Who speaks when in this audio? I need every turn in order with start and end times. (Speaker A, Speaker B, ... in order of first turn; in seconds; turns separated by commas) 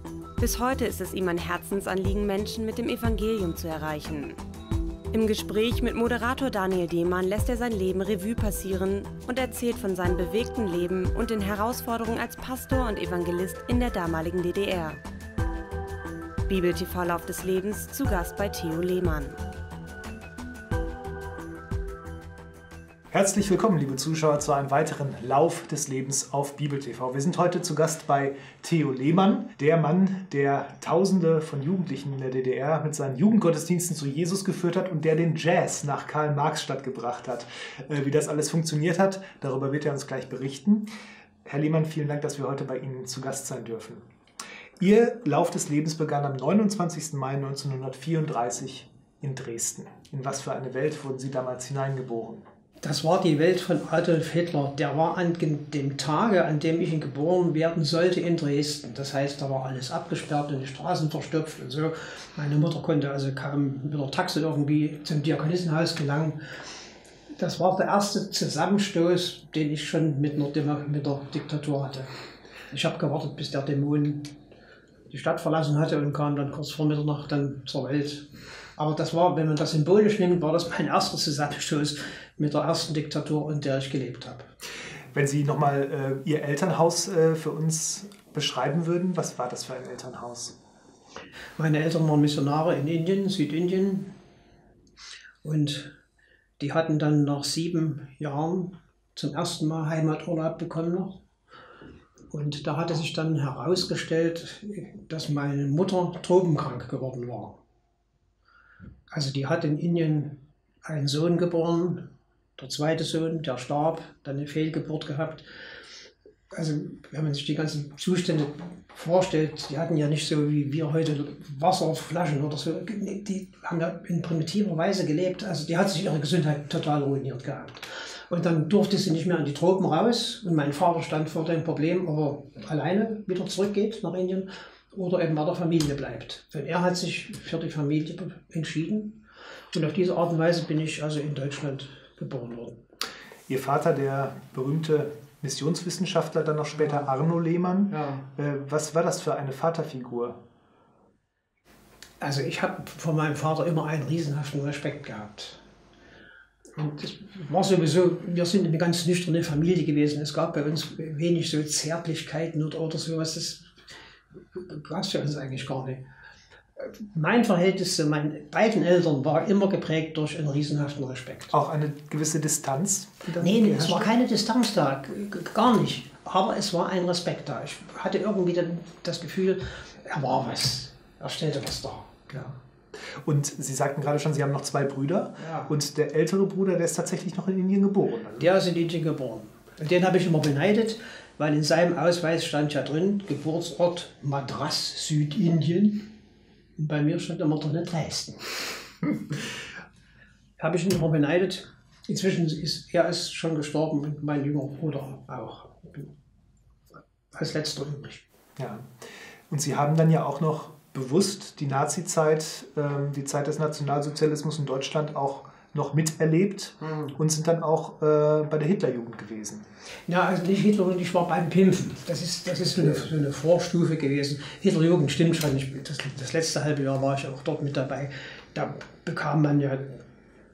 Speaker A: 0.4-4.4, Speaker A: 5.1-15.0, Speaker A: 16.5-19.4, Speaker B: 23.1-40.9, Speaker B: 41.4-44.0, Speaker B: 44.8-52.4, Speaker C: 52.8-66.4, Speaker C: 67.3-72.1, Speaker C: 72.7-74.3, Speaker C: 75.1-84.5, Speaker B: 85.1-90.5, Speaker C: 91.6-94.1, Speaker C: 95.4-96.0, Speaker C: 96.6-101.2, Speaker C: 102.3-107.6, Speaker C: 109.1-115.5, Speaker C: 116.5-142.8, Speaker B: 143.5-150.4, Speaker C: 146.8-147.1, Speaker C: 147.9-148.3, Speaker C: 152.2-155.6, Speaker C: 156.7-163.7, Speaker C: 164.5-166.0, Speaker C: 166.8-171.5, Speaker B: 171.5-174.1, Speaker C: 173.4-182.1, Speaker B: 182.3-188.5, Speaker C: 185.4-185.7, Speaker C: 188.4-196.1, Speaker C: 196.8-198.6, Speaker C: 200.6-206.1, Speaker C: 207.3-208.2, Speaker B: 208.6-208.9, Speaker B: 209.5-219.7, Speaker C: 216.8-217.1, Speaker C: 220.1-230.0